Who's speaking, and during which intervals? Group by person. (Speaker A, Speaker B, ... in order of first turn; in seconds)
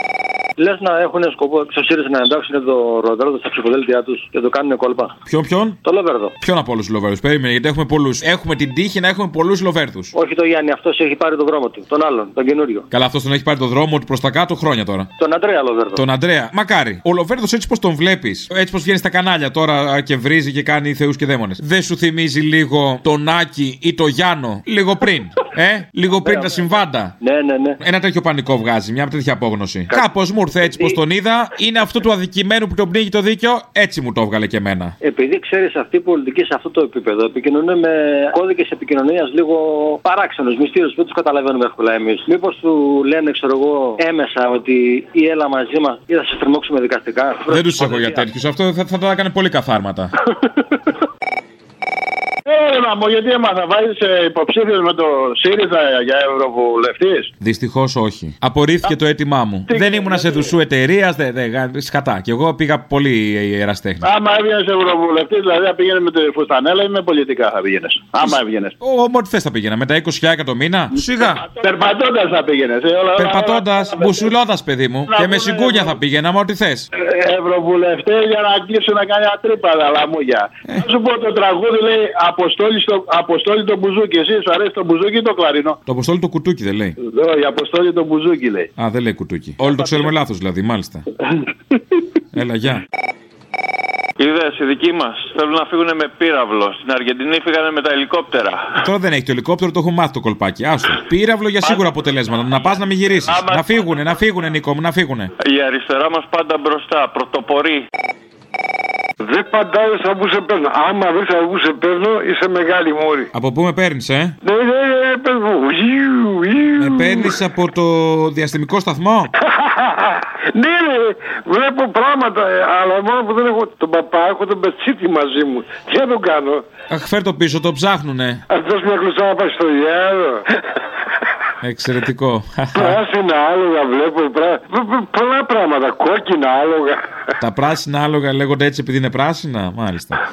Speaker A: 0.6-5.2, 5.8-6.3, 10.1-12.9, 15.2-16.0, 26.2-27.8, 30.7-30.9, 35.0-48.2
Speaker B: 5.3-5.8, 6.4-10.1, 12.9-15.1, 15.9-27.1, 27.8-35.0, 47.5-50.1, 57.4-64.0, 68.8-71.5, 73.2-76.9, 85.8-87.0, 88.8-91.0, 92.3-92.8, 98.8-105.3, 113.3-114.3, 116.8-119.3, 126.9-128.4, 131.6-133.0, 137.4-140.2
Speaker C: 52.5-57.3, 59.8-60.3, 64.0-68.7, 71.2-74.3, 75.1-76.0, 76.9-85.8, 87.0-88.7
Speaker D: 94.2-98.8, 103.2-103.6, 105.4-107.8
Speaker E: 109.2-113.3, 114.4-117.3, 119.4-126.7, 128.5-130.4, 132.7-137.0